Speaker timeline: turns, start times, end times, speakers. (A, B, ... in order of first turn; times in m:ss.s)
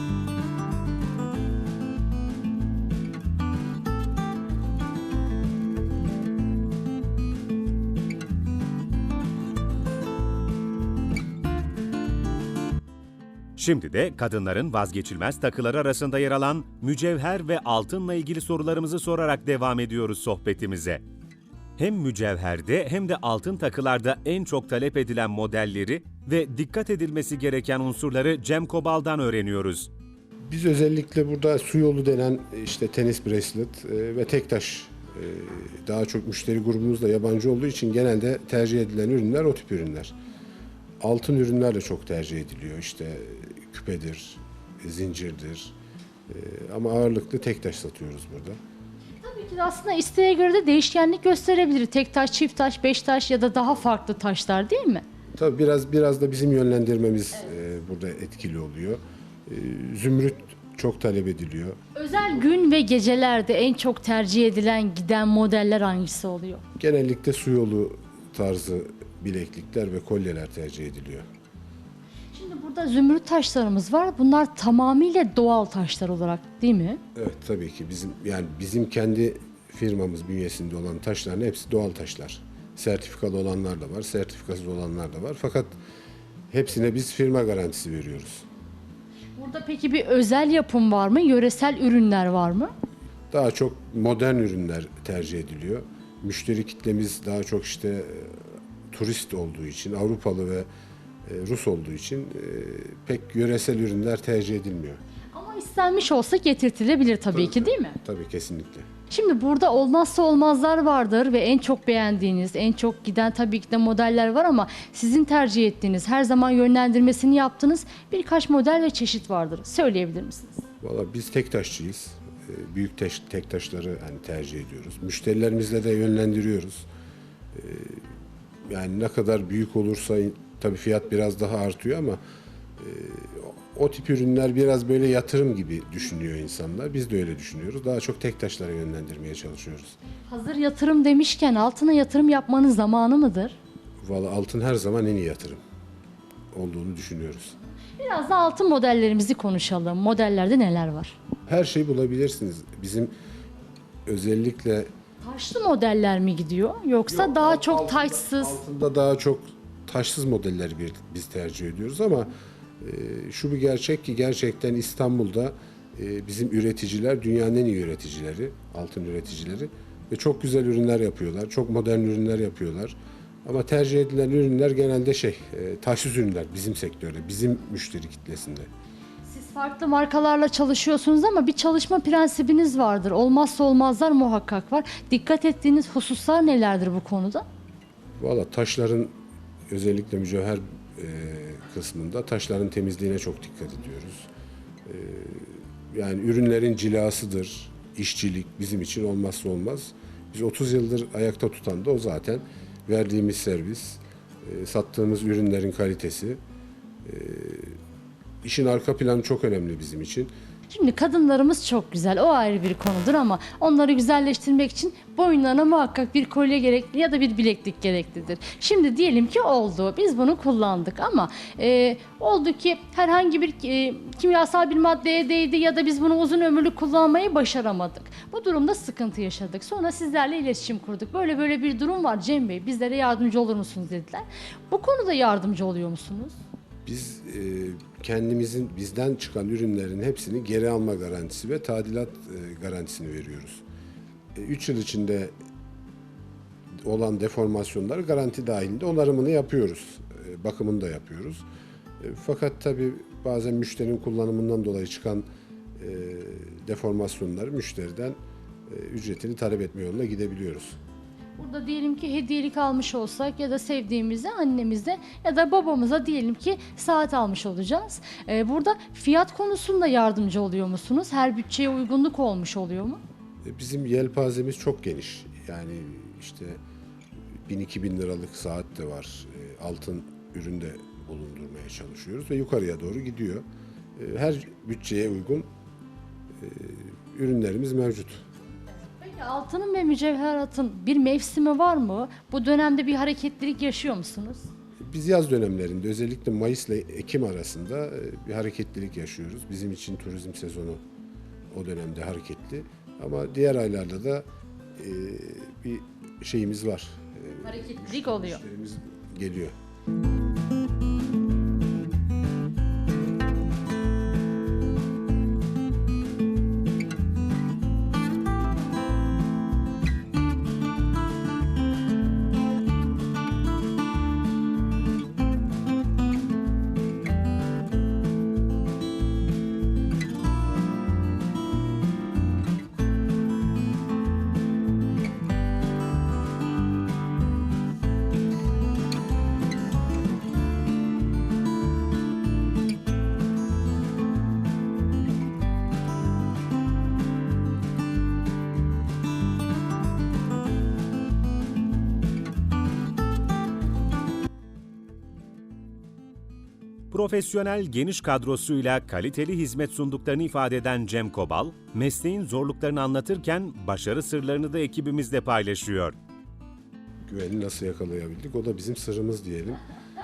0:13.6-0:21.0 A
0:21.8-0:29.9 A
0:30.5-0:40.1 B
0:41.0-0:45.8 B
0:46.3-0:48.6 B
0:49.2-0:55.0 C
0:55.4-1:01.8 B
1:02.0-1:06.6 C
1:06.8-1:11.3 B
1:12.3-1:17.0 C
1:17.2-1:25.7 B
1:26.5-1:28.4 B
1:29.4-1:32.7 C
1:33.3-1:40.7 B
1:41.2-1:45.0 B
1:45.3-1:48.0 C
1:47.3-1:48.9 B
1:49.1-2:00.6 C
2:00.8-2:06.9 B
2:07.5-2:08.1 B
2:08.6-2:12.2 B
2:12.8-2:20.0 B
2:20.3-2:23.6 C
2:24.0-2:25.6 B
2:26.5-2:27.6 B
2:28.0-2:31.2 C
2:31.5-2:33.1 B
2:34.1-2:34.9 B
2:35.2-2:38.6 C
2:37.1-2:58.7 B
2:59.2-3:07.4 C
3:08.2-3:09.1 B
3:09.7-3:14.3 B
3:14.8-3:26.4 B
3:27.0-3:27.8 B
3:28.4-3:30.3 B
3:30.7-3:56.4 C
3:56.9-4:03.6 B
4:04.4-4:05.3 B
4:06.8-4:11.4 B
4:12.0-4:15.3 B
4:15.8-4:20.8 B
4:21.4-4:33.0 C
4:33.4-4:36.6 B
4:37.5-4:43.4 B
4:44.0-4:45.5 B
4:46.4-4:48.2 B
4:49.0-4:54.5 C
4:54.8-5:00.8 B
5:01.5-5:04.3 B
5:04.8-5:09.5 B
5:07.4-5:08.4 C
5:56.9-6:06.0 A
6:07.1-6:09.6 B